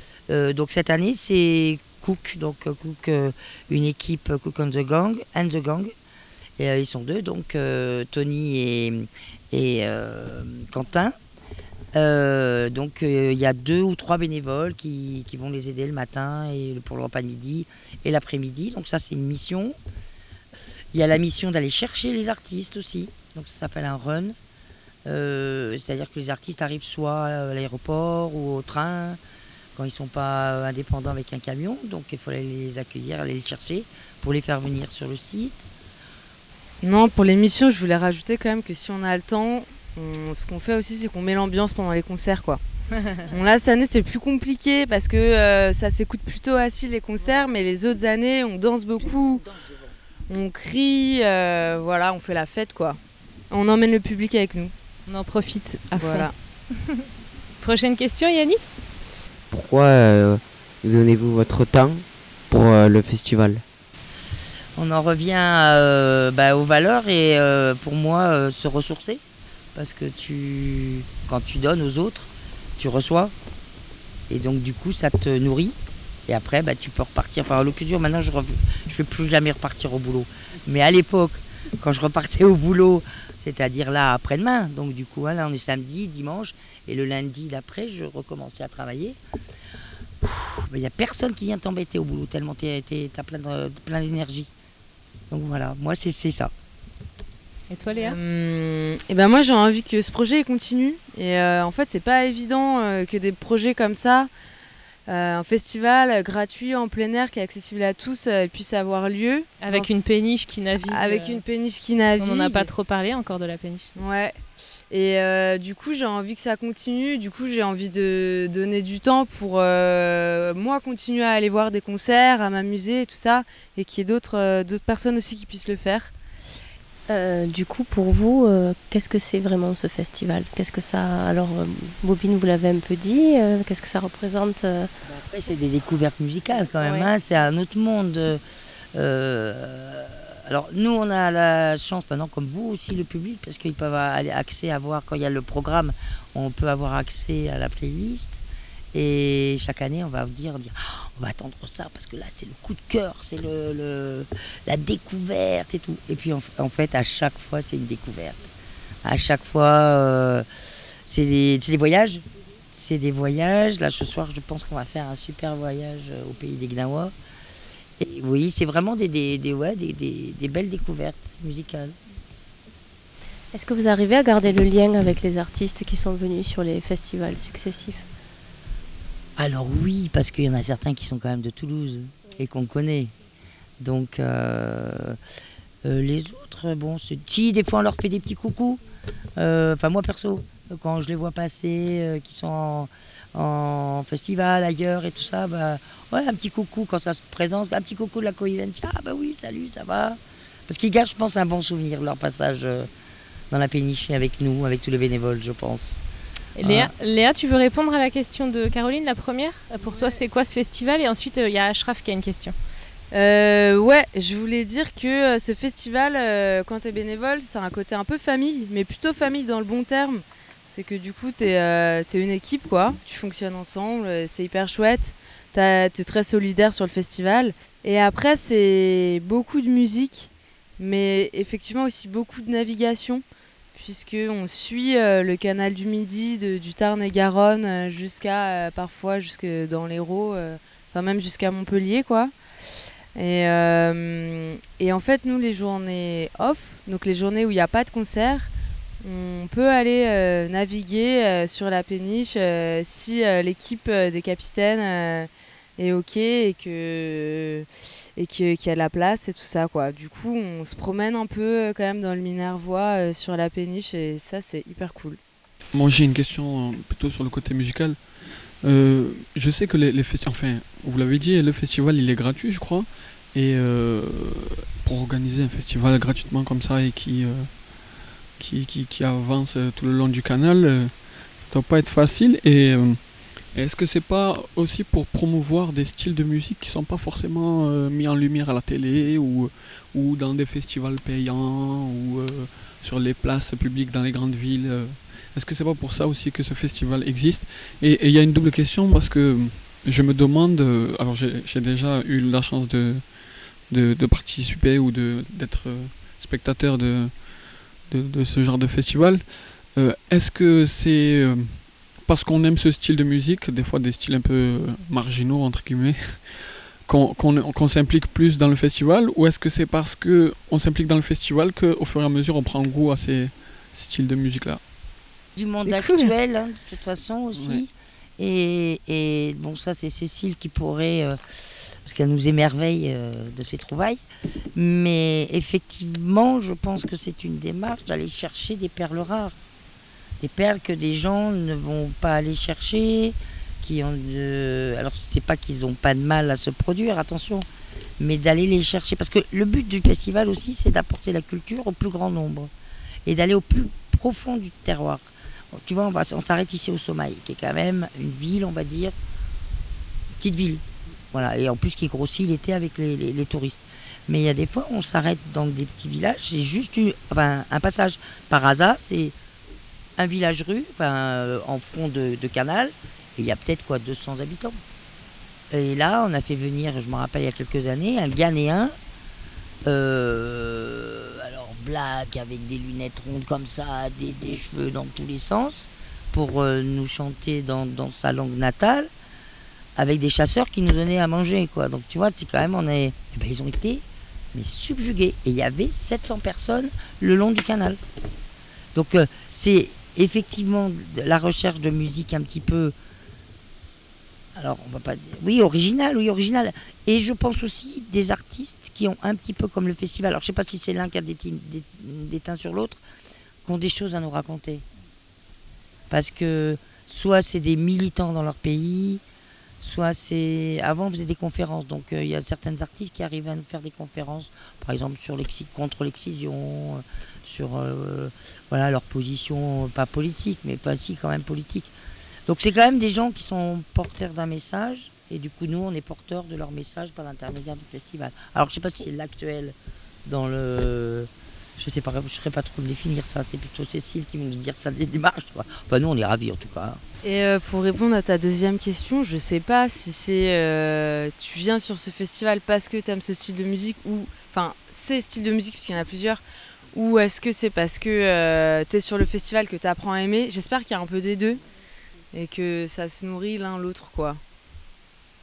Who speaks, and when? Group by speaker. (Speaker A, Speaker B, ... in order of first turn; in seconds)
Speaker A: 0.3-5.9, 6.6-11.2, 11.9-19.8, 20.9-24.4, 25.1-29.2, 29.8-35.6, 64.8-69.2, 69.7-73.3, 74.3-75.8, 76.3-89.2, 90.2-94.5, 95.3-96.5, 135.1-138.4, 138.9-148.4, 148.9-158.4, 159.0-160.4, 161.1-167.1, 168.0-172.0, 179.4-183.1, 183.8-185.2, 185.8-188.8, 189.4-202.9, 203.5-206.0, 206.6-206.9, 325.4-331.2, 331.8-334.0, 334.5-339.4, 340.2-347.4, 348.0-352.5, 353.1-358.9, 360.2-369.1, 370.0-374.6, 375.5-378.7, 379.6-388.9, 389.8-397.8, 398.7-402.7, 404.3-412.8, 413.4-414.6, 415.9-419.0, 419.6-431.7, 432.3-446.8
Speaker B: 36.8-42.6, 43.3-49.5, 50.3-53.0, 53.5-54.7, 56.0-56.3, 97.9-104.3, 105.1-110.0, 110.9-112.7, 114.0-114.4, 114.9-126.1, 209.8-210.2, 213.1-242.3, 243.2-248.5, 249.0-265.2, 447.0-456.2, 456.7-461.4, 462.1-464.2
Speaker C: 55.1-57.0, 57.6-58.8, 97.7-98.2, 109.6-111.4, 112.1-113.9, 206.6-212.5, 325.6-326.1
Speaker D: 59.5-63.6
Speaker E: 127.1-134.9, 136.8-137.1, 173.5-178.0
Speaker F: 265.7-324.6, 327.3-327.6